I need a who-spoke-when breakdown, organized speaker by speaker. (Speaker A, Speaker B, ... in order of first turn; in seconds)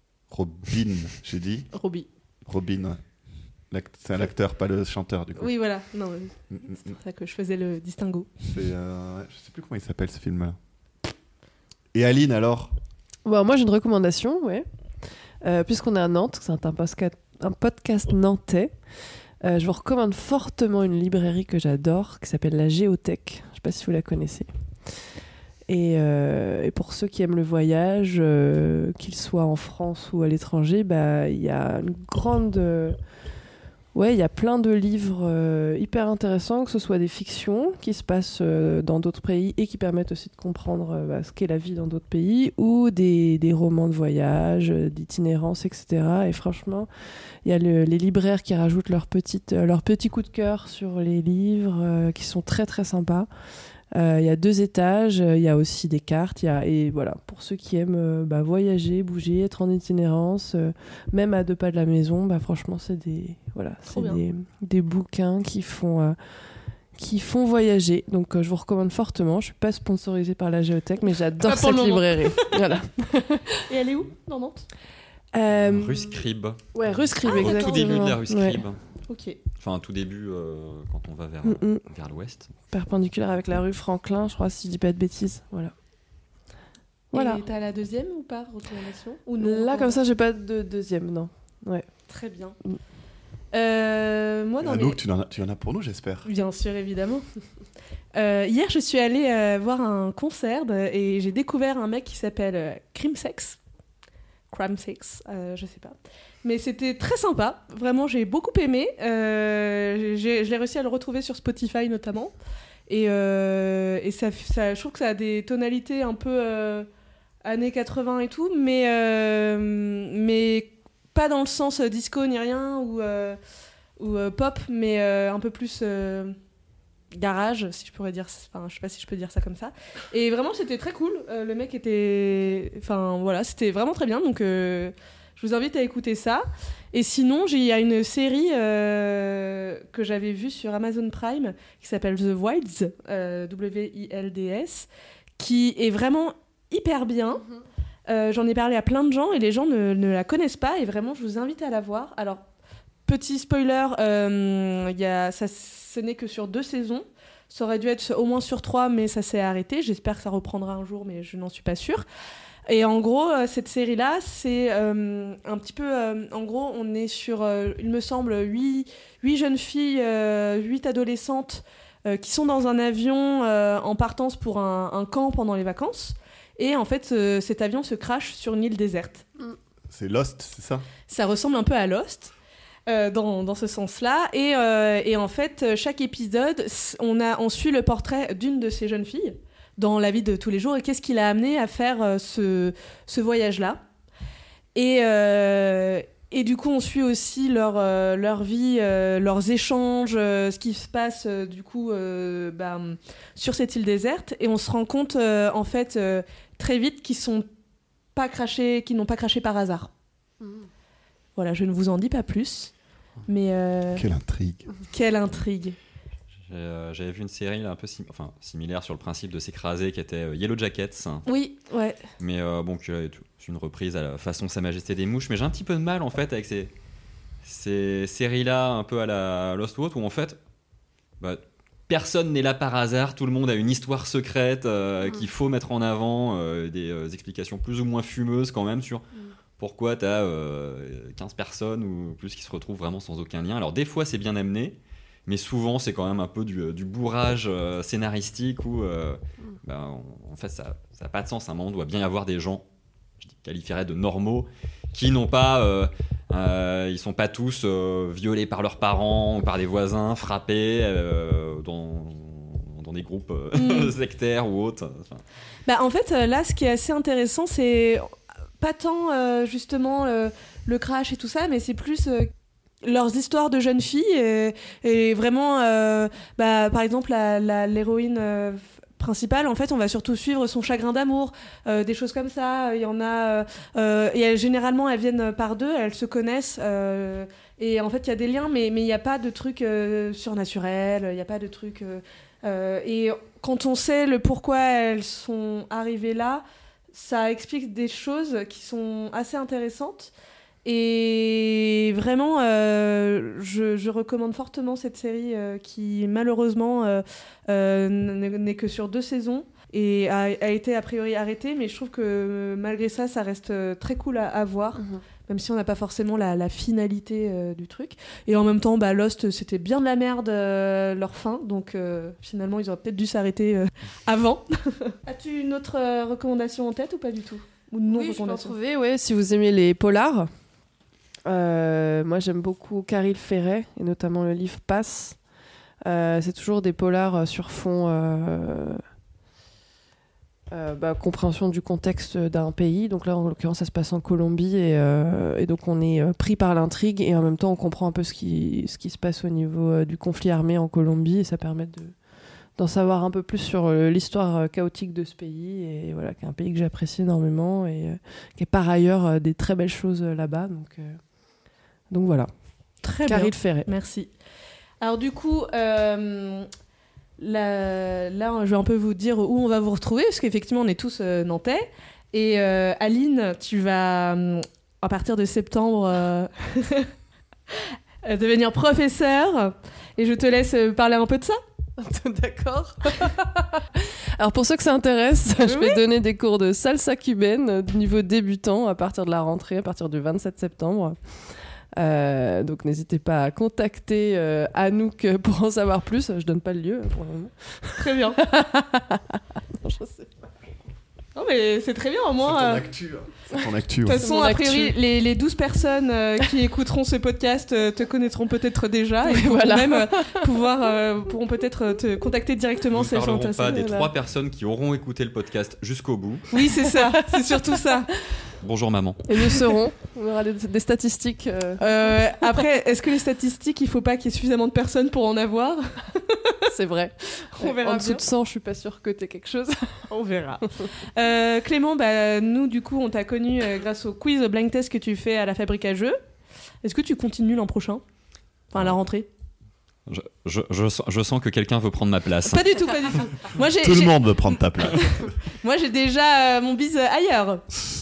Speaker A: 0.3-1.7, 2.5-3.0, 3.7-5.5, 6.5-6.8, 8.5-10.6, 11.9-12.7, 94.6-96.3, 179.9-180.8, 214.0-214.7, 402.2-404.1, 443.6-444.8
Speaker B: 1.7-2.1, 5.4-8.3, 63.9-64.2, 71.4-72.8, 73.6-74.7, 77.2-78.1, 79.1-79.4, 87.1-90.0, 92.1-92.6, 93.5-95.0, 96.2-97.2, 98.2-103.6, 104.5-112.3, 112.9-116.9, 117.4-123.4, 124.0-126.4, 127.1-147.4, 148.1-152.4, 153.1-162.1, 162.7-179.2, 181.1-182.3, 182.9-193.8, 194.8-207.5, 208.2-209.9, 211.4-212.7, 213.3-214.1, 214.9-215.8, 221.3-222.0, 263.5-263.9, 265.7-272.3, 272.8-300.1, 300.6-328.6, 362.8-364.1, 364.8-366.5, 367.2-376.9, 377.5-381.4, 385.4-385.8, 397.8-398.2, 401.2-402.7, 403.9-413.7, 416.3-417.9, 421.6-426.5, 427.4-428.0, 429.9-436.0, 436.6-437.8, 438.5-439.1, 442.2-447.4
Speaker C: 13.2-14.7, 15.4-18.8, 19.4-24.5, 25.7-33.0, 33.9-46.9, 47.4-53.3, 53.9-66.2, 67.0-73.6, 75.3-76.2, 76.7-78.6, 81.5-81.8, 82.7-85.7, 87.1-87.4, 89.4-91.9, 327.9-330.3, 331.2-335.2, 335.9-338.8, 340.5-351.9, 352.6-361.0, 361.9-362.3, 363.1-363.7, 381.8-391.0, 391.8-400.1, 403.4-404.8, 409.1-410.3, 413.5-413.9, 416.6-417.6, 419.1-422.3, 426.5-429.9
Speaker D: 75.5-78.8, 79.6-82.5, 216.5-221.3, 222.2-226.7, 227.4-230.4, 231.2-239.0, 239.6-252.7, 253.2-265.2, 412.7-416.3, 418.4-419.1, 439.9-442.5